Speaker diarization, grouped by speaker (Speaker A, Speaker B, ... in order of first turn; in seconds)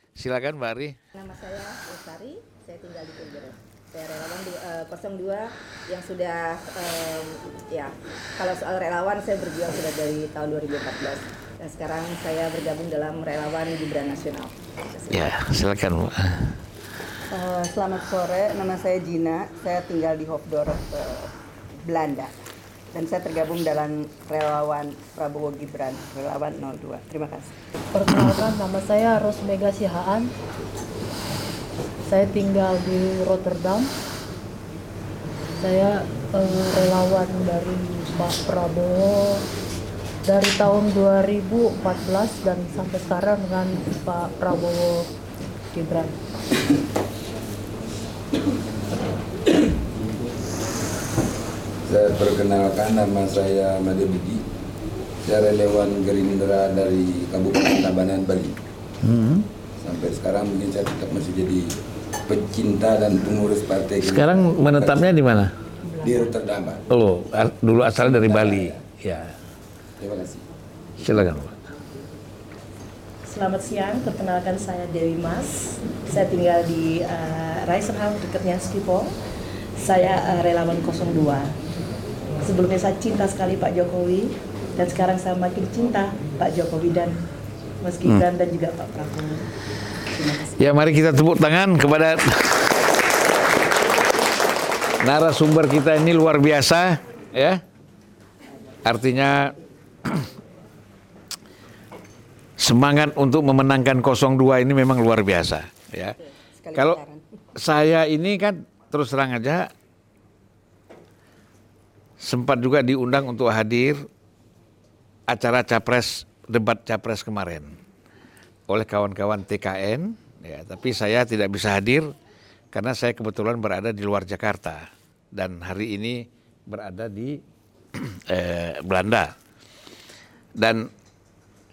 Speaker A: 0.2-1.0, 15.1-16.6, 59.0-59.5, 64.0-65.5, 66.9-69.3, 71.0-71.5, 90.6-92.7, 95.0-97.6, 98.8-99.5, 102.6-106.2, 107.6-109.7, 112.2-114.0, 115.3-117.8, 118.7-122.1, 122.7-127.4, 128.0-129.3, 130.6-130.9
Speaker B: 1.1-15.3
Speaker C: 17.3-21.3, 21.9-22.3, 22.9-27.6, 106.6-107.2
Speaker D: 27.9-30.3, 32.1-33.9, 35.6-39.4, 40.3-45.1, 45.7-46.1, 65.9-66.3
Speaker E: 51.9-54.4, 55.3-58.6, 59.8-61.7, 62.3-65.0, 66.0-66.8, 68.0-68.8, 70.0-70.5
Speaker F: 73.3-79.2, 79.8-81.5, 82.4-87.2, 87.8-89.5, 90.2-90.5